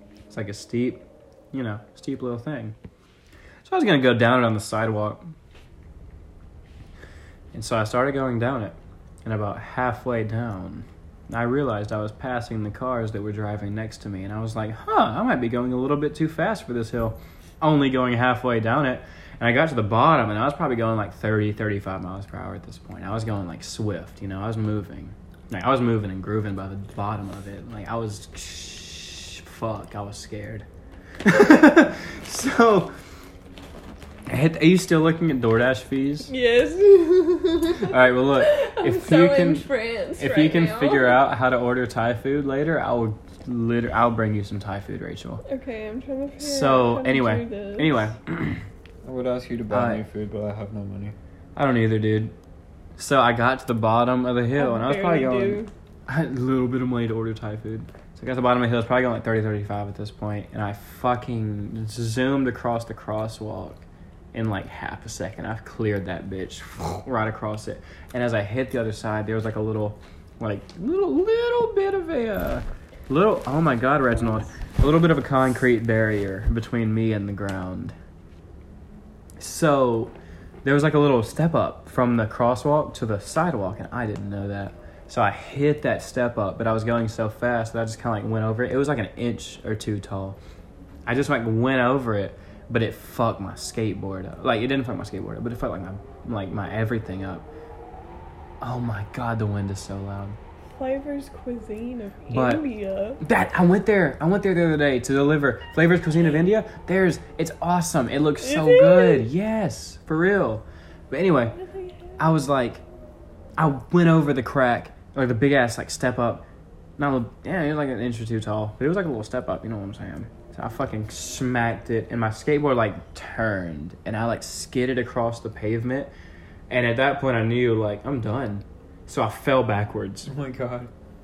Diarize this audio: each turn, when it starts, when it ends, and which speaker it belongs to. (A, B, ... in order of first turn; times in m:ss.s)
0:00.3-0:02.8 A
0:03.6-0:05.2 A
0:07.5-0:30.7 A
0:31.2-0:32.9 A
0:34.3-0:36.3 A
0:36.3-0:41.2 B
0:37.8-0:45.4 A
0:45.4-0:48.1 B
0:46.4-0:48.6 A
0:49.0-0:51.2 C
0:49.7-0:50.0 A
0:51.6-0:52.3 A
0:53.0-1:03.8 A
0:54.6-0:55.7 B
1:04.3-1:18.0 A
1:19.4-1:30.4 A
1:31.1-1:37.5 A
1:38.6-1:40.4 A
1:40.8-1:43.2 B
1:42.3-1:42.6 A
1:43.2-1:51.6 A
1:48.4-1:49.3 B
1:51.6-1:52.1 B
1:52.2-1:52.8 A
1:53.6-1:56.5 A
1:57.0-2:06.1 A
2:06.7-2:10.3 A
2:10.3-2:10.9 C